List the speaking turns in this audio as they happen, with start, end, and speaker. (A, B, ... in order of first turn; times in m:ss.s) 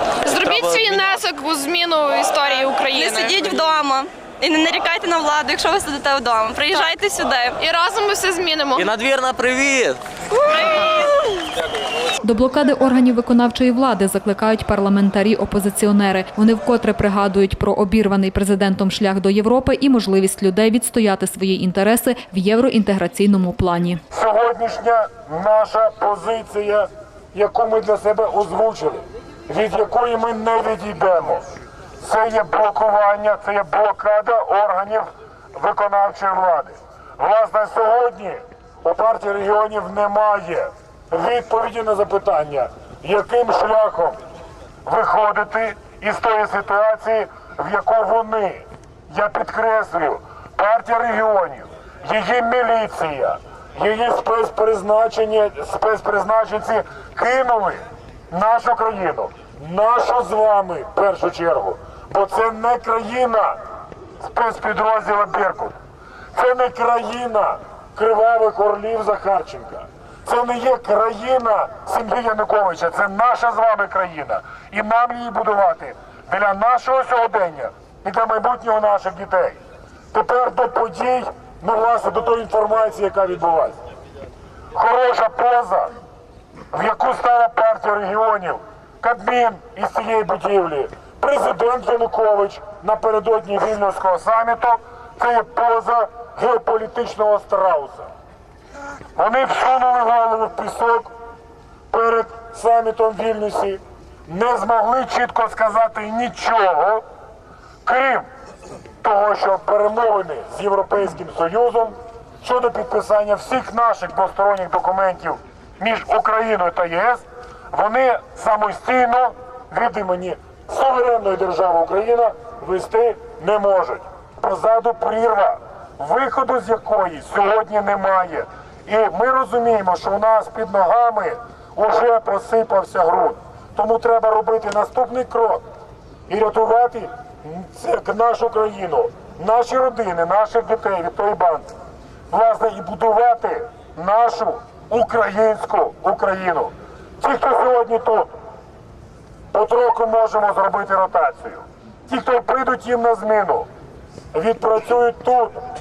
0:00.2-0:01.2 A
0:00.2-0:03.8 B
0:02.9-0:07.6 C
0:06.7-0:07.0 B
0:07.6-0:08.9 B
0:08.7-0:10.0 A
0:11.0-0:11.3 C
0:12.2-0:24.0 D
0:24.1-0:31.5 E
0:32.0-0:44.2 E
0:44.8-1:03.6 E
1:04.2-1:05.8 E
1:06.3-1:19.6 E
1:20.1-1:23.8 E
1:24.7-1:25.9 E
1:26.7-1:38.1 E
1:39.2-1:41.1 E
1:41.9-1:47.0 E
1:47.8-1:48.3 E
1:49.0-2:15.6 E
2:16.3-2:21.7 E
2:22.3-2:28.3 E
2:29.5-2:33.7 E
2:34.3-2:35.6 E